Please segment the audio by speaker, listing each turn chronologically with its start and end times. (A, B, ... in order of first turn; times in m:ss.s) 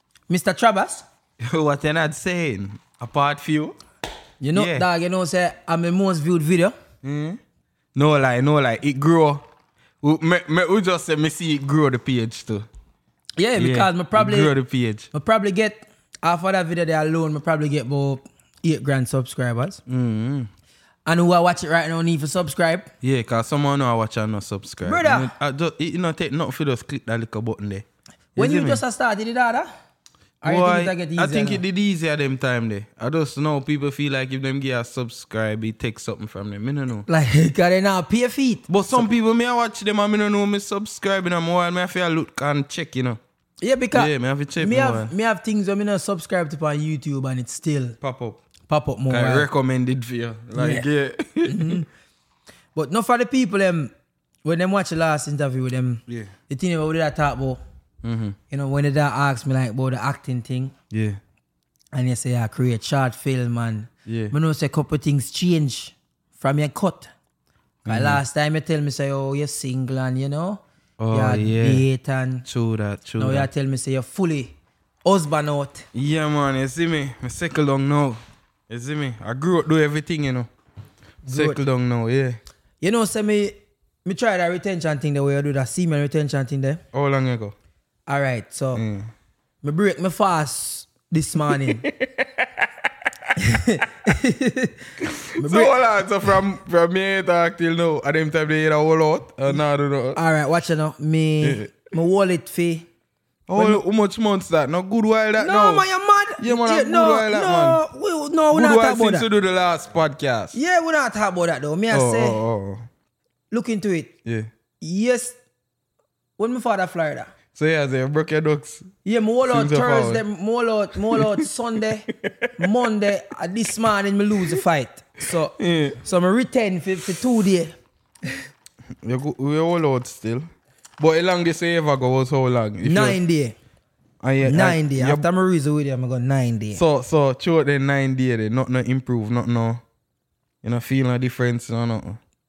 0:00.3-0:01.0 A
0:01.4-0:03.8 B
0:04.4-0:06.8 A
0:04.5-0:04.9 B
0:07.0-0:07.4 B
0:07.9-0:09.4 B
0:10.0-0:12.7 B
0:13.4-0:14.5 A
0:13.6-0:15.1 B
0:15.1-0:19.8 A
0:19.9-0:20.5 B
0:21.0-0:22.9 A
0:23.0-0:27.8 B
0:24.8-0:25.3 A
0:28.4-0:28.8 B
0:28.4-0:29.7 A
0:30.4-0:31.6 A
0:30.4-0:37.1 B
0:37.1-0:39.1 A
0:38.7-0:43.2 B
0:43.6-0:48.0 A
0:43.9-0:45.1 B
0:48.0-0:48.4 B
0:48.7-0:49.5 A
0:49.1-0:51.8 B
0:50.6-0:50.8 A
0:51.4-0:51.8 A
0:52.7-0:53.9 A
0:54.4-0:57.6 A
0:56.1-0:56.3 B
0:58.0-0:58.4 B
0:58.5-1:00.7 A
1:00.9-1:01.2 B
1:01.9-1:07.1 A
1:04.0-1:04.3 B
1:07.8-1:08.2 B
1:07.8-1:12.4 A
1:11.0-1:11.8 B
1:12.4-1:13.5 B
1:13.2-1:14.5 A
1:15.0-1:15.8 A
1:15.9-1:20.5 B
1:21.2-1:21.6 A
1:21.3-1:22.4 B
1:22.8-1:26.8 A
1:26.9-1:27.5 B
1:28.1-1:28.8 A
1:28.7-1:29.1 B
1:29.6-1:31.9 A
1:31.5-1:32.8 B
1:33.4-1:34.8 A
1:35.0-1:40.2 B
1:35.3-1:35.7 A
1:40.1-1:42.8 A
1:41.4-1:41.7 B
1:43.5-1:45.8 B
1:43.5-1:43.8 A
1:45.4-1:49.2 A
1:46.4-1:47.8 B
1:48.5-1:50.6 B
1:50.5-1:52.4 A
1:51.9-1:52.8 B
1:53.5-1:54.1 A
1:54.8-1:55.4 A
1:56.4-1:57.3 A
1:57.5-1:58.9 B
1:59.0-2:07.7 A
1:59.4-2:00.2 B
2:01.1-2:01.5 B
2:02.1-2:02.7 B
2:05.6-2:06.0 B
2:09.0-2:13.2 B
2:12.8-2:13.6 A
2:14.2-2:15.2 B
2:14.4-2:16.8 A
2:16.7-2:19.8 B
2:20.6-2:22.2 B